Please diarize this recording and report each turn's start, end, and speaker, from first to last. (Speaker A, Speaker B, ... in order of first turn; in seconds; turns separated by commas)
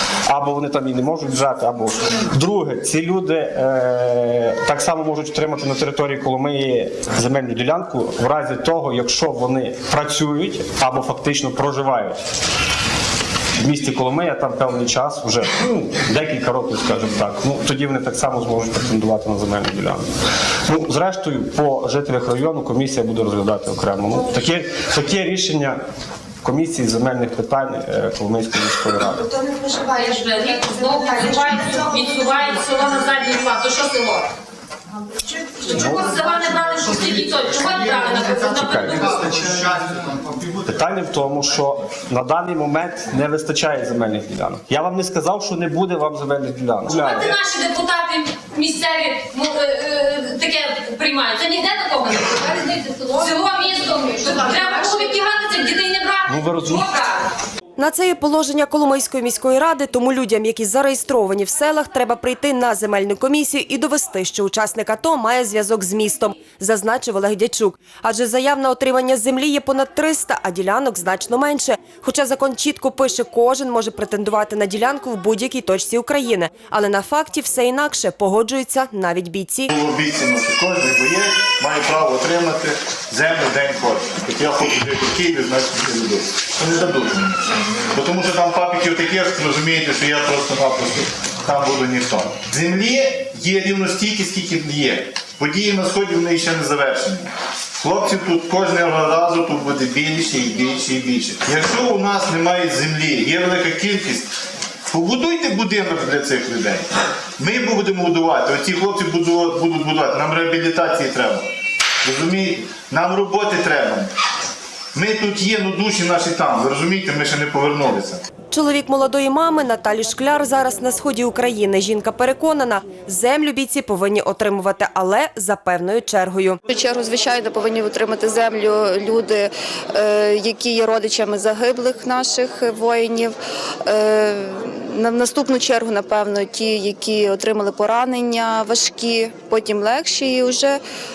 Speaker A: 0.3-12.2, Speaker A: 13.6-20.1, Speaker A: 20.6-25.8, Speaker A: 26.4-29.3, Speaker B: 29.6-34.3, Speaker B: 35.3-39.5, Speaker A: 35.7-36.1, Speaker A: 38.6-39.7, Speaker A: 40.5-47.3, Speaker B: 46.9-57.3, Speaker A: 56.3-56.9, Speaker C: 57.8-79.7, Speaker D: 79.7-104.3, Speaker D: 104.9-111.5, Speaker D: 112.0-114.1, Speaker D: 115.0-118.2, Speaker C: 118.5-126.6, Speaker E: 126.7-133.3, Speaker E: 133.9-140.8